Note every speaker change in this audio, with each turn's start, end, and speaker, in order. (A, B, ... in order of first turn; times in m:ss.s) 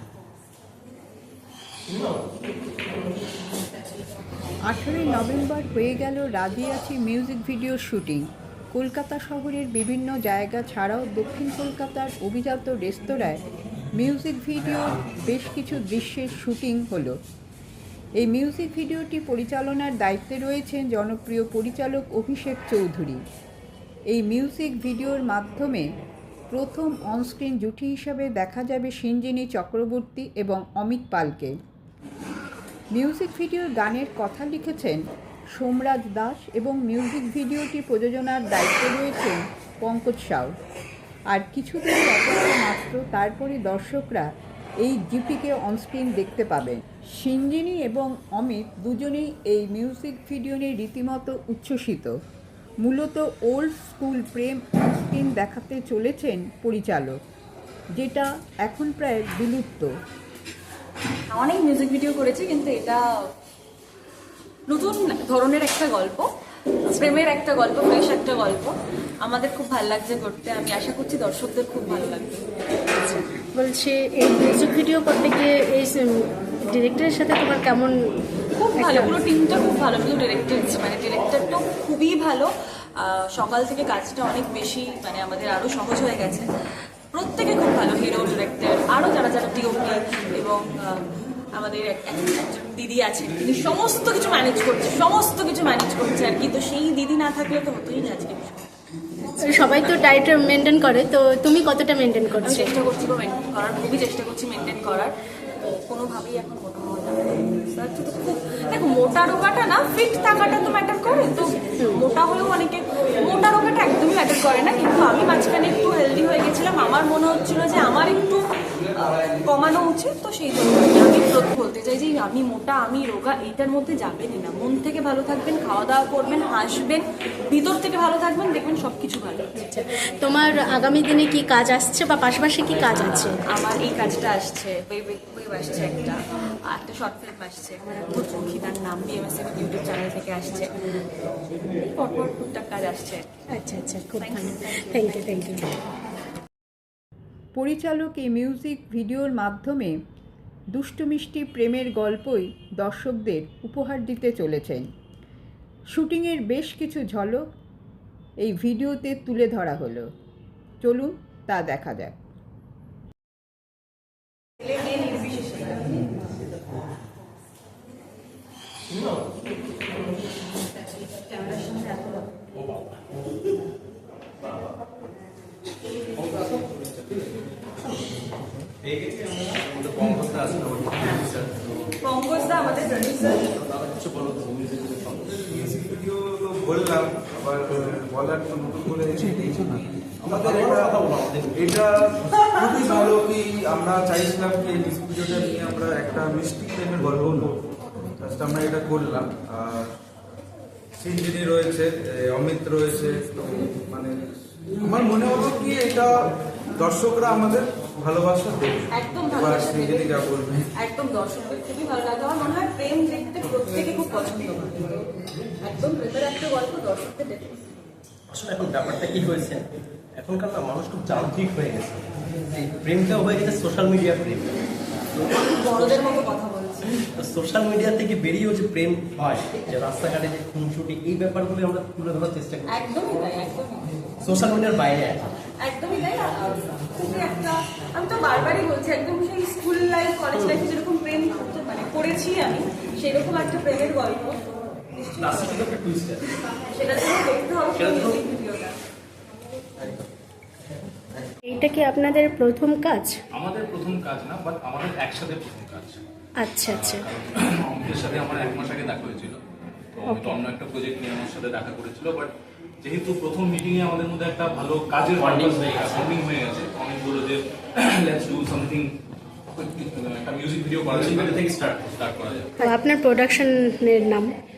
0:04.7-0:13.4 A
0:14.0-0:17.2 A
0:18.2-0:23.2 A
0:24.1-0:25.9 A
0:26.5-0:31.6 A
0:32.9-0:35.0 A
0:35.5-0:40.5 A
0:41.3-0:44.3 A
0:44.8-0:52.1 A
0:52.8-0:57.2 A
0:58.0-0:59.9 A
1:01.3-1:03.0 B
1:04.7-1:06.2 B
1:06.9-1:12.5 B
1:12.9-1:18.0 C
1:18.5-1:26.5 B
1:18.7-1:19.2 C
1:27.1-1:38.6 B
1:39.4-1:42.8 C
1:42.4-2:09.6 B
2:09.6-2:13.4 C
2:12.7-2:20.8 B
2:21.6-2:23.3 B
2:23.5-2:25.6 C
2:24.2-2:25.0 B
2:27.5-2:30.0 A
2:30.7-2:34.8 A
2:35.9-2:37.4 A
2:38.4-2:40.1 A
2:40.8-2:42.2 A
2:44.6-2:46.0 B
2:48.9-2:49.4 D
2:52.5-2:53.0 E
2:54.4-2:54.8 D
2:56.2-2:57.2 D
2:57.8-2:58.2 D
2:58.8-3:02.0 D
3:02.0-3:03.5 B
3:03.5-3:05.5 D
3:05.3-3:17.5 F
3:10.2-3:11.8 D
3:12.4-3:13.1 D
3:18.2-3:19.9 F
3:21.0-3:30.7 F
3:28.9-3:37.6 B
3:38.3-3:44.6 D
3:45.3-3:46.9 B
3:47.1-3:52.7 D
3:52.7-3:54.1 B
3:54.2-3:55.2 D
3:55.6-4:04.4 B
4:04.9-4:05.6 B
4:05.3-4:06.3 D
4:06.6-4:08.7 B
4:11.4-4:13.2 C
4:13.3-4:16.0 E
4:16.4-4:17.0 C
4:16.6-4:19.4 E
4:19.9-4:28.9 E
4:20.1-4:20.4 C
4:25.1-4:26.1 D
4:29.5-4:32.7 E
4:30.9-4:31.9 D
4:32.6-4:34.3 C